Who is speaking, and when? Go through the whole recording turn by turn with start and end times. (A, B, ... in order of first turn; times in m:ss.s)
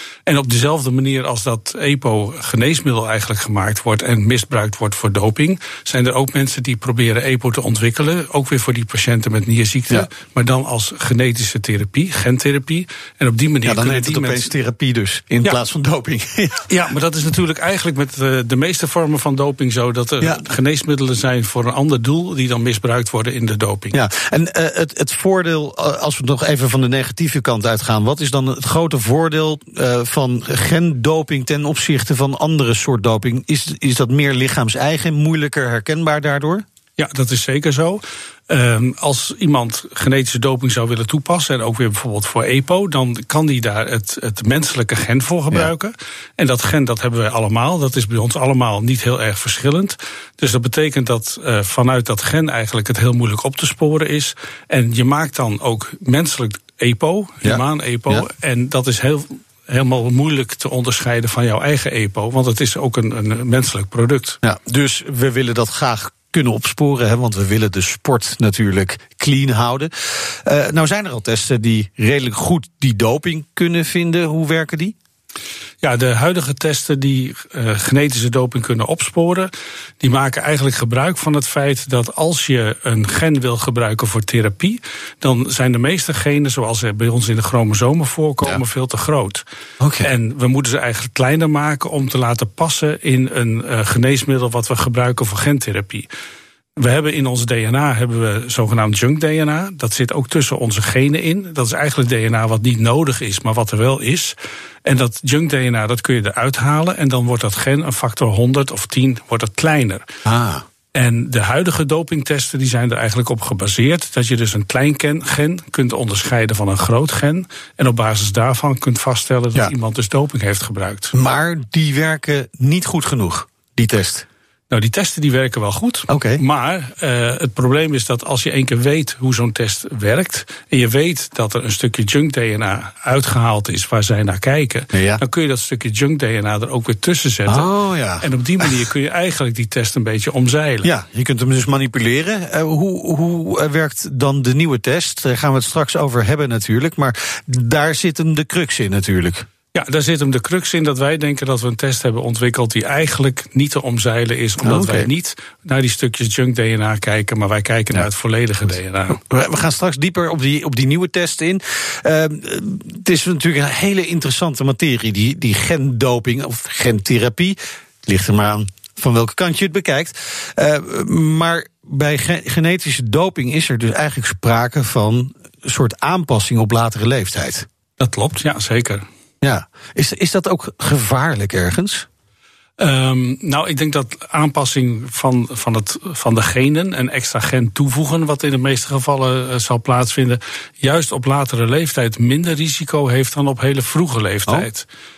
0:00.2-0:14.4 A
0:13.6-0:16.6 B
0:16.7-0:24.0 A
0:20.2-0:20.5 B
0:23.9-0:36.6 B
0:37.0-1:04.4 A
0:57.4-0:58.2 B
1:04.4-1:14.9 B
1:15.8-1:29.4 A
1:29.8-1:30.1 B
1:30.0-1:36.1 A
1:36.8-1:50.0 A
1:50.3-1:50.6 B
1:50.9-2:01.1 A
2:01.1-2:04.2 B
2:04.7-2:17.7 A
2:06.1-2:06.4 B
2:14.9-2:15.2 B
2:17.5-2:18.9 B
2:18.2-2:20.9 A
2:20.8-2:29.4 B
2:29.7-2:39.2 A
2:34.6-2:35.1 B
2:39.2-2:57.6 B
2:58.0-2:59.0 A
2:59.4-3:02.0 B
3:02.8-3:14.8 A